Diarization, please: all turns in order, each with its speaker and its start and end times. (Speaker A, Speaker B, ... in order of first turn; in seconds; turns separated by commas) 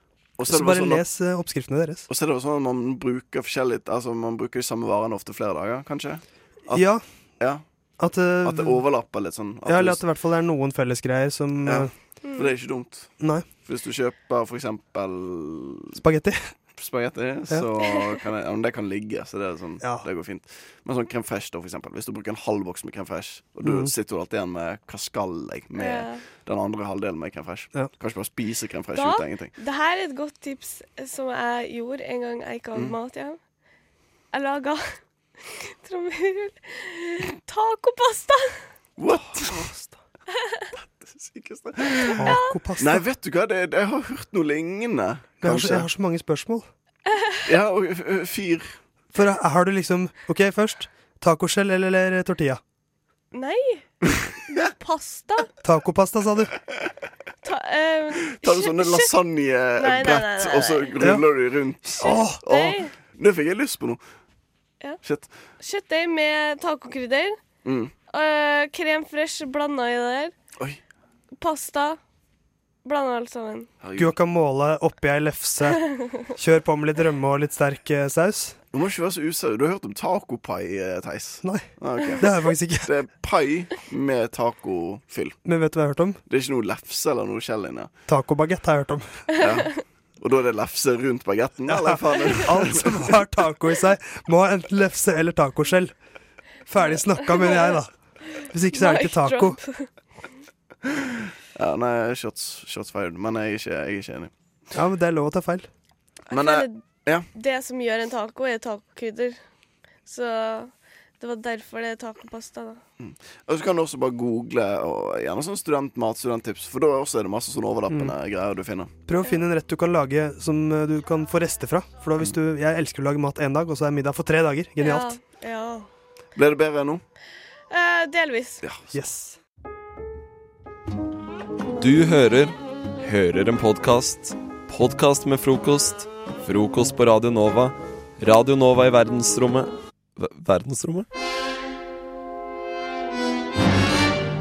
Speaker A: 0.4-1.0, Speaker B: 0.5-2.1, Speaker A: 2.1-6.8, Speaker B: 6.7-7.0, Speaker B: 8.0-8.8, Speaker A: 8.4-10.0, Speaker B: 9.7-11.9, Speaker A: 11.7-16.0, Speaker C: 12.2-12.6, Speaker B: 13.2-13.5, Speaker B: 16.0-16.5, Speaker A: 16.7-29.5, Speaker C: 17.8-18.2, Speaker B: 19.8-20.1, Speaker B: 23.6-23.9, Speaker C: 25.8-26.2, Speaker C: 28.9-33.4, Speaker C: 34.3-38.6, Speaker A: 39.0-39.7, Speaker B: 39.1-40.0, Speaker A: 40.8-45.9, Speaker C: 42.0-42.6, Speaker B: 42.2-43.0, Speaker B: 45.4-46.7, Speaker C: 47.1-47.5, Speaker A: 47.5-48.8, Speaker B: 49.1-52.6, Speaker C: 53.3-53.9, Speaker C: 54.5-55.5, Speaker B: 55.6-56.5, Speaker C: 57.4-59.1, Speaker A: 58.4-64.0, Speaker C: 59.8-61.0, Speaker B: 61.0-61.3, Speaker B: 62.0-62.6, Speaker C: 62.0-62.9, Speaker A: 65.0-65.3, Speaker C: 65.6-67.4, Speaker A: 67.6-67.9, Speaker C: 68.1-70.3, Speaker C: 71.4-72.0, Speaker C: 72.8-73.7, Speaker A: 73.8-74.1, Speaker B: 74.0-75.8, Speaker C: 75.8-76.3, Speaker B: 76.3-78.6, Speaker A: 78.7-82.2, Speaker B: 81.4-82.9, Speaker A: 82.8-85.4, Speaker B: 85.4-86.2, Speaker A: 86.3-87.9, Speaker B: 88.1-89.3, Speaker C: 89.4-89.8, Speaker A: 89.4-93.1, Speaker B: 91.7-96.0, Speaker B: 96.7-98.0, Speaker C: 96.9-97.8, Speaker C: 98.4-99.9, Speaker B: 98.5-99.6, Speaker A: 101.5-104.3, Speaker B: 104.7-105.7, Speaker C: 106.3-109.4, Speaker A: 106.3-107.3, Speaker C: 110.0-112.8, Speaker A: 113.0-118.9, Speaker B: 117.9-118.2, Speaker B: 119.1-125.2, Speaker C: 124.8-125.9, Speaker A: 126.3-127.0, Speaker C: 127.7-128.6, Speaker B: 128.9-129.4, Speaker D: 131.8-141.1